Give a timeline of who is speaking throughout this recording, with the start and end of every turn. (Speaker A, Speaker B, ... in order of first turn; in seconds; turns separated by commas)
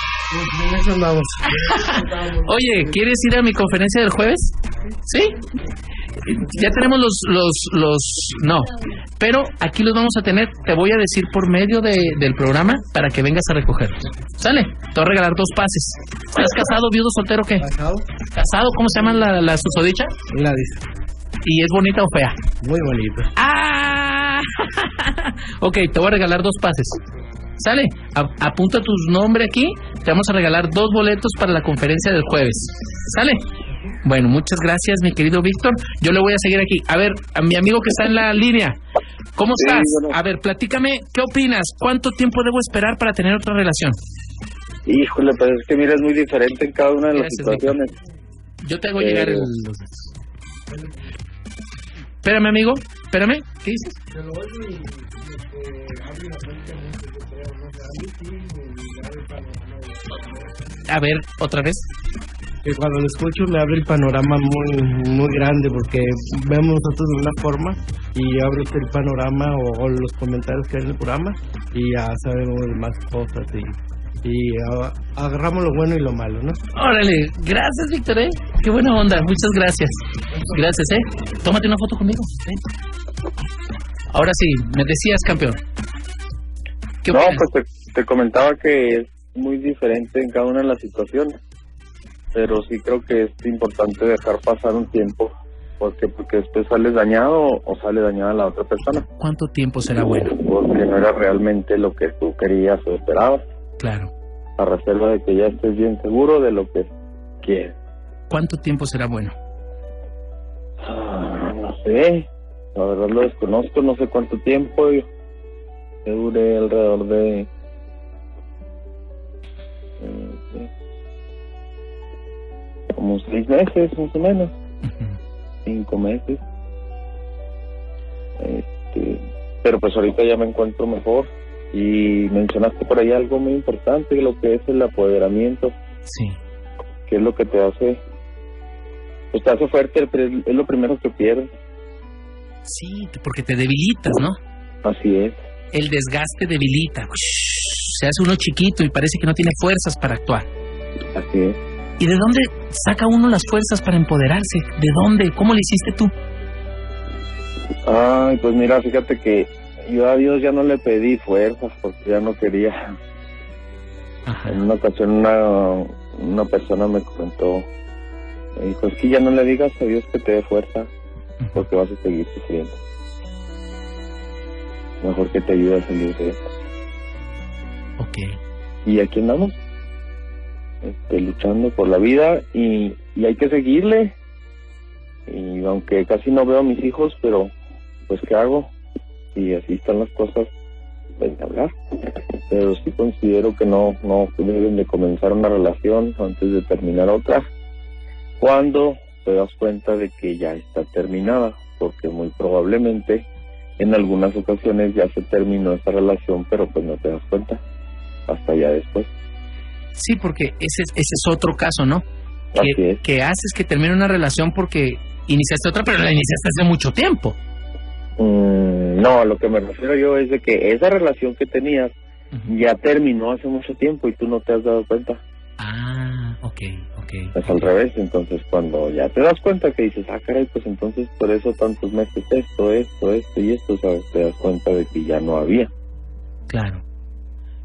Speaker A: 0.3-3.0, Speaker B: 1.6-4.5, Speaker B: 5.0-5.4, Speaker B: 6.2-17.7, Speaker A: 17.6-18.1, Speaker B: 18.3-20.1, Speaker A: 20.3-20.8, Speaker B: 21.4-22.4, Speaker A: 22.6-23.3, Speaker B: 23.4-27.0, Speaker B: 27.6-33.5, Speaker B: 34.0-38.8, Speaker B: 39.4-44.0, Speaker C: 39.5-40.1, Speaker C: 44.9-47.9, Speaker B: 47.1-47.8, Speaker B: 48.6-50.1, Speaker C: 49.0-49.5, Speaker A: 50.7-51.1, Speaker B: 52.2-54.0, Speaker A: 54.1-60.8, Speaker B: 60.9-61.8, Speaker A: 62.6-76.6, Speaker B: 76.7-80.0, Speaker B: 80.5-82.5, Speaker B: 84.1-85.6, Speaker B: 87.0-87.5, Speaker C: 87.1-91.4, Speaker C: 92.3-99.0, Speaker B: 99.2-100.3, Speaker C: 100.1-103.4, Speaker B: 103.8-104.1, Speaker C: 104.6-106.9, Speaker C: 107.4-107.7, Speaker B: 108.3-109.3, Speaker C: 110.8-115.1, Speaker C: 116.0-117.5, Speaker C: 120.0-120.7, Speaker C: 122.9-124.5, Speaker B: 124.8-125.2, Speaker C: 125.7-126.4, Speaker C: 128.4-135.7, Speaker B: 136.1-136.4, Speaker C: 137.1-138.0, Speaker C: 139.3-141.5, Speaker B: 142.7-144.4, Speaker C: 144.8-145.4, Speaker B: 145.7-150.5, Speaker C: 151.1-151.6, Speaker B: 152.0-156.1, Speaker C: 157.8-163.0, Speaker B: 164.2-164.6, Speaker C: 164.5-167.7, Speaker C: 168.6-170.9, Speaker C: 171.5-172.7, Speaker C: 175.0-176.4, Speaker B: 178.0-178.3, Speaker C: 178.8-179.5, Speaker C: 180.8-184.1, Speaker C: 185.3-187.5, Speaker C: 188.1-188.7, Speaker C: 189.3-190.5, Speaker C: 191.2-191.7, Speaker C: 192.5-197.4, Speaker C: 198.4-203.3, Speaker C: 203.8-207.6, Speaker C: 208.3-209.1, Speaker B: 209.9-212.0, Speaker C: 212.5-213.0, Speaker B: 212.6-217.4, Speaker C: 218.2-221.9, Speaker C: 222.5-225.2, Speaker B: 225.6-227.7, Speaker C: 227.3-235.7, Speaker B: 236.5-236.8